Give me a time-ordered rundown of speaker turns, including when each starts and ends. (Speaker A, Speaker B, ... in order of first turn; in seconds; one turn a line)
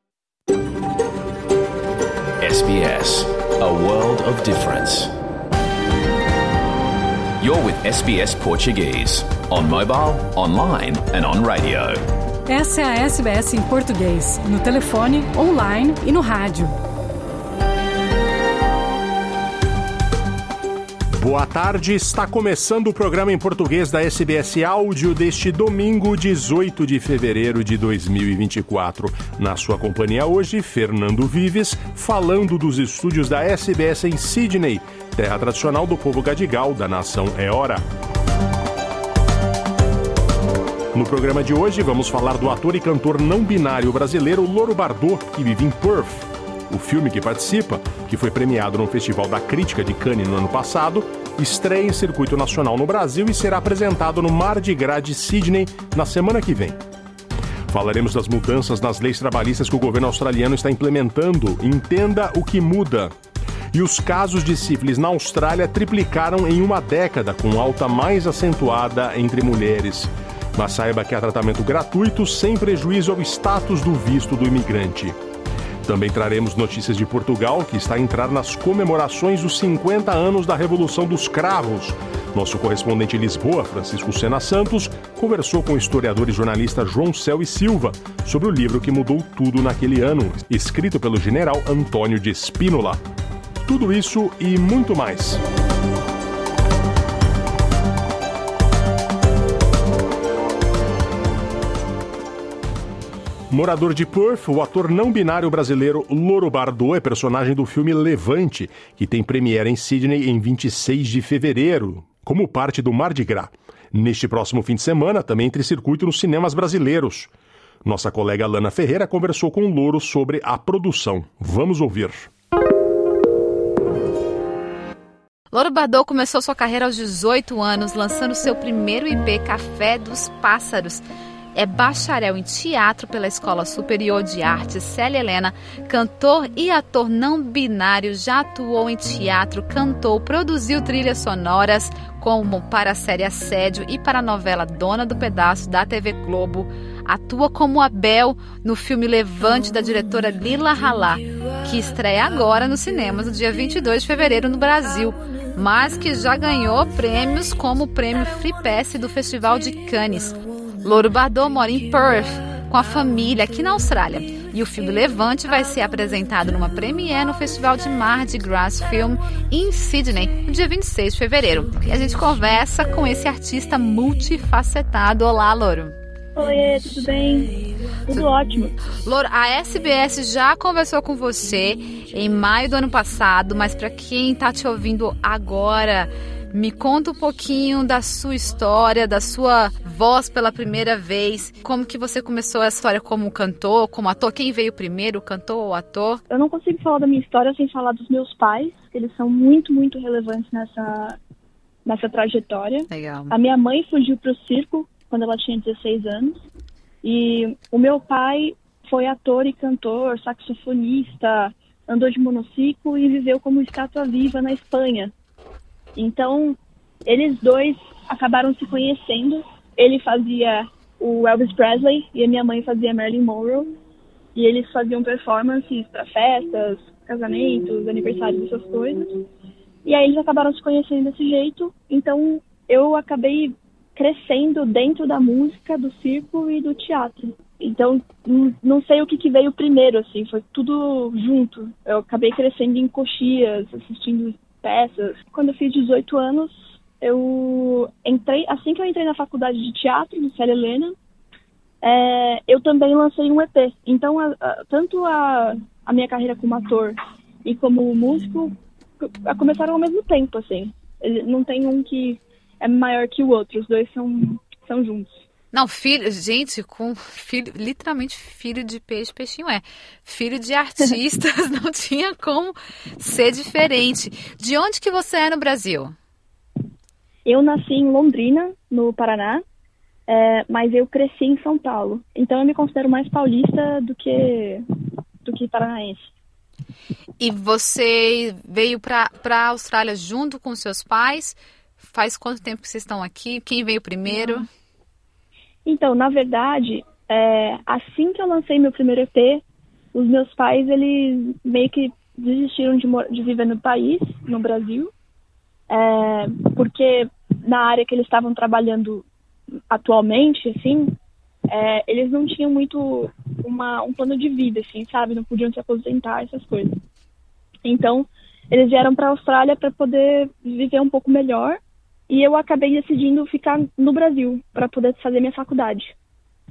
Speaker A: 2.4-5.1
Speaker A: 7.4-12.0
Speaker B: 12.5-16.8
Speaker C: 21.1-37.9
Speaker C: 40.9-56.8
Speaker C: 57.7-63.1
Speaker C: 63.7-75.2
Speaker C: 75.8-93.0
Speaker C: 93.7-95.4
Speaker C: 103.5-117.3
Speaker C: 117.8-122.3
Speaker D: 125.5-131.0
Speaker D: 131.6-175.9
Speaker E: 176.4-177.6
Speaker E: 178.1-178.8
Speaker D: 178.9-196.2
Speaker E: 196.3-201.2
Speaker E: 201.8-206.4
Speaker D: 202.9-203.3
Speaker E: 207.0-215.1
Speaker E: 216.0-223.7
Speaker E: 224.3-229.2
Speaker E: 229.8-251.0
Speaker E: 251.8-265.2
Speaker D: 265.5-275.9
Speaker E: 277.2-279.4
Speaker E: 280.1-284.6
Speaker E: 285.2-286.1
Speaker D: 287.2-294.5
Speaker E: 294.1-294.4
Speaker E: 295.7-299.4
Speaker E: 299.9-304.9
Speaker E: 305.7-309.1
Speaker E: 309.7-310.9
Speaker E: 311.5-316.7
Speaker E: 317.6-325.9